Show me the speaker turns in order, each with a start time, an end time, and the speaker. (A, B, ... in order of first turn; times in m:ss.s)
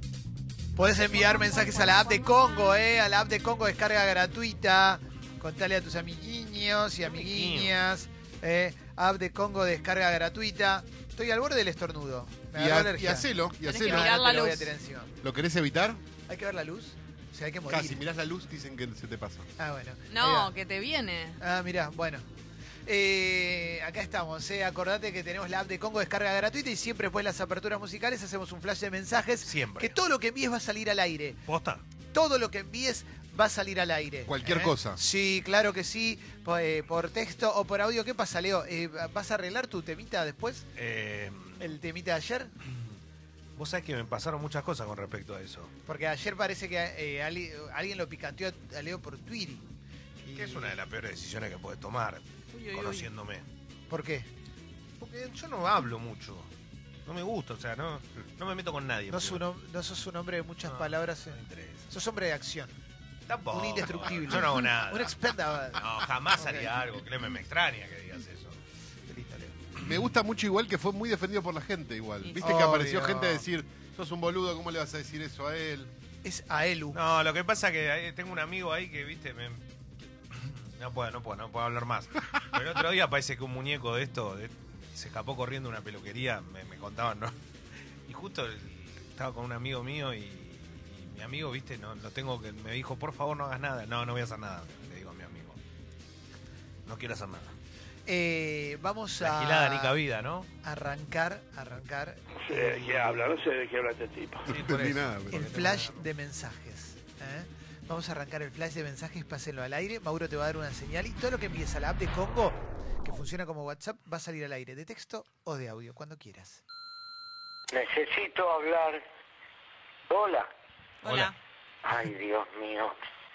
0:00.8-0:13.3 A
0:01.0-0:02.8 B
0:07.1-0:07.8 C
0:12.5-0:14.2 D
0:13.7-0:14.7 B
0:13.8-0:15.1 A
0:15.2-0:16.0 D
0:16.3-0:18.0 A
0:17.7-0:19.5 D
0:19.6-0:20.5 A
0:20.1-0:21.4 B
0:21.4-0:22.3 A
0:22.9-0:31.4 A
0:29.4-0:30.0 C
0:31.5-0:31.8 C
0:32.1-0:40.7 A
0:34.3-0:35.0 D
0:40.8-0:41.7 C
0:41.6-0:42.5 A
0:43.6-0:45.7 C
0:45.9-0:49.6 A
0:50.2-0:50.8 A
0:50.4-0:53.4 C
0:52.5-0:53.1 B
0:53.9-0:54.3 A
0:55.0-0:56.5 C
0:57.1-0:59.4 C
0:59.1-1:02.7 A
1:00.6-1:01.9 C
1:03.3-1:05.2 C
1:03.5-1:06.8 A
1:05.7-1:08.6 C
1:09.1-1:09.6 A
1:09.8-1:15.9 D
1:12.2-1:12.5 B
1:12.4-1:13.4 A
1:16.2-1:17.0 A
1:16.9-1:19.6 C
1:20.3-1:27.4 C
1:28.1-1:35.6 C
1:36.9-1:37.5 C
1:38.1-1:40.0 A
1:39.2-1:40.5 C
1:40.6-1:43.4 A
1:42.4-1:44.5 E
1:44.5-1:45.6 D
1:44.5-1:46.0 C
1:45.3-1:56.6 A
1:57.7-1:59.0 F
2:00.1-2:00.5 F
2:01.0-2:01.4 B
2:01.0-2:01.3 C
2:01.8-2:03.0 F